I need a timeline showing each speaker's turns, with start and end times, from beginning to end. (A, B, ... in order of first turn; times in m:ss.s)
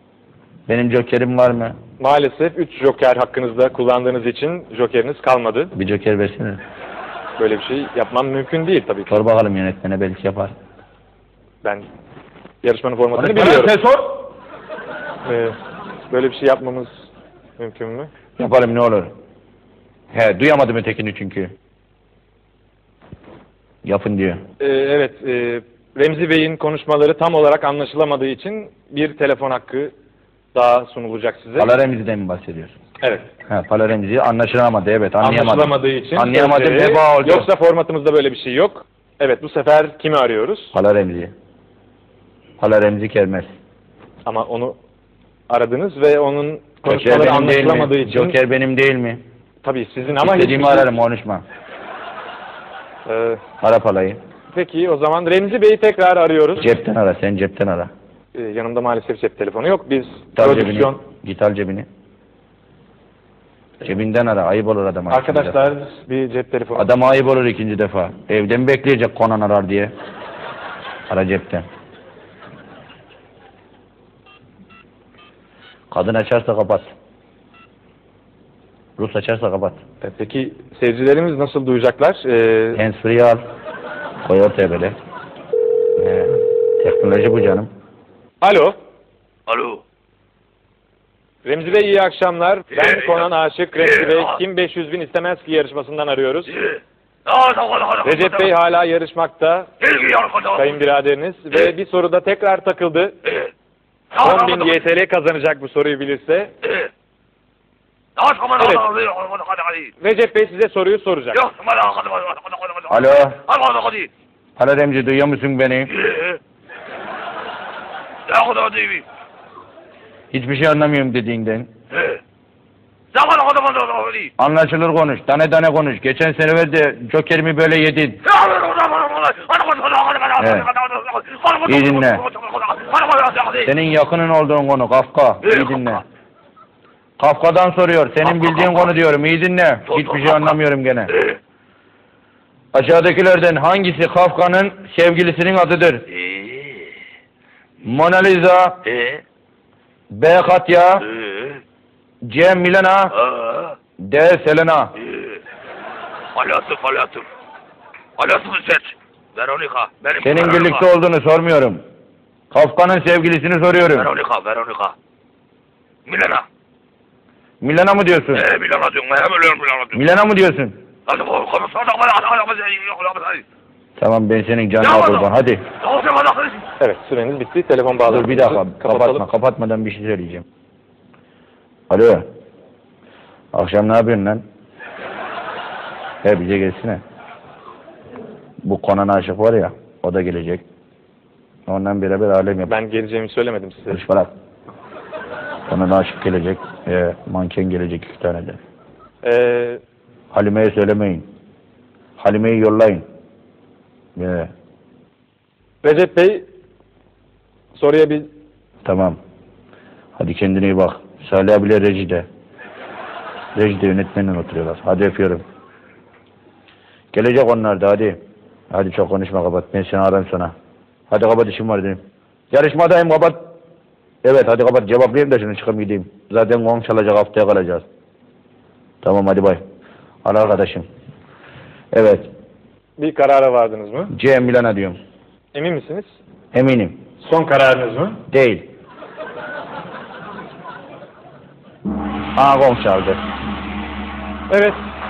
0:00.7-0:01.8 A
0:02.0-0:05.7 B
0:05.8-0:06.6 A
0:07.4-0:09.2 B
0:09.1-0:10.5 A
0:12.6-0:13.8 B
0:13.2-0:14.3 A
0:15.3-0:15.6 B
0:16.1-0:17.1 B
0:17.6-0:18.1 B
0:18.4-0:19.1 A
0:20.1-0:21.5 A
0:23.8-0:24.4 A
0:24.6-0:29.9 B
0:30.5-0:31.7 B
0:31.6-0:32.8 A
0:33.0-0:33.3 B
0:33.5-0:37.5 A
0:35.2-0:40.7 B
0:40.7-0:41.3 A
0:42.6-0:43.5 A
0:44.3-0:44.8 B
0:45.5-0:48.4 B
0:46.9-0:49.2 A
0:49.6-0:50.9 B
0:50.2-0:51.4 A
0:53.1-0:53.4 B
0:53.6-0:54.2 A
0:54.5-0:56.7 B
0:56.6-0:57.9 A
0:58.4-1:01.0 B
1:00.4-1:01.9 A
1:03.8-1:05.6 A
1:05.1-1:06.9 B
1:06.8-1:09.9 A
1:11.1-1:11.7 A
1:15.9-1:16.9 A
1:19.0-1:19.8 A
1:20.0-1:22.8 B
1:22.8-1:23.4 A
1:24.2-1:25.0 A
1:26.0-1:27.7 A
1:28.4-1:28.7 B
1:29.5-1:29.8 C
1:31.4-1:36.6 B
1:37.3-1:38.4 C
1:38.0-1:39.7 B
1:39.8-1:40.6 C
1:40.5-1:43.3 B
1:44.1-1:46.5 B
1:44.3-1:44.6 C
1:48.2-1:49.9 C
1:48.6-1:48.9 B
1:50.0-1:51.4 B
1:51.4-1:54.1 C
1:52.9-1:53.4 A
1:54.6-1:56.0 A
1:56.1-1:56.4 C
1:58.3-1:59.0 C
2:00.3-2:01.7 A
2:03.1-2:04.3 C
2:04.4-2:08.2 A
2:08.3-2:13.7 C
2:10.4-2:10.7 A
2:11.7-2:12.3 A
2:13.6-2:16.0 A
2:17.2-2:21.2 A
2:19.9-2:20.5 C
2:22.7-2:26.1 A
2:26.2-2:26.9 C
2:27.8-2:28.9 A
2:28.9-2:29.2 C
2:30.1-2:31.1 A
2:31.1-2:31.6 C
2:32.3-2:33.2 A
2:33.3-2:33.7 C
2:34.0-2:34.9 A
2:36.4-2:37.3 C
2:38.2-2:40.8 C
2:40.2-2:41.8 A
2:42.5-2:44.1 A
2:44.0-2:44.9 C
2:46.1-2:46.4 C
2:47.6-2:48.5 A
2:48.4-2:50.0 C
2:49.9-2:50.8 A
2:51.1-2:53.4 C
2:54.0-2:55.7 A
2:54.8-2:55.3 C
2:55.8-2:56.6 C
2:56.8-2:59.2 B
2:58.1-3:00.5 A
3:01.9-3:02.3 A
3:03.5-3:04.4 A
3:06.2-3:07.0 A
3:08.6-3:10.6 A
3:11.7-3:12.7 A
3:12.7-3:14.0 B
3:13.9-3:14.3 A
3:15.7-3:18.6 A
3:19.2-3:19.8 B
3:20.3-3:21.3 A
3:22.2-3:23.0 A
3:24.2-3:24.5 A
3:25.8-3:26.5 B
3:27.8-3:28.3 B
3:28.8-3:29.2 A
3:30.2-3:32.3 A
3:33.6-3:35.4 A
3:37.1-3:38.2 A
3:38.7-3:40.5 A
3:41.1-3:42.0 A
3:42.5-3:43.5 A
3:44.2-3:47.8 A
3:49.0-3:49.6 A
3:50.2-3:50.9 A
3:51.9-3:52.3 A
3:53.0-3:54.1 B
3:54.1-3:55.0 A
3:55.5-3:56.2 B
3:56.5-3:57.0 A
3:57.2-3:58.2 B
3:58.3-3:58.7 A
4:02.4-4:03.2 A
4:04.5-4:04.8 B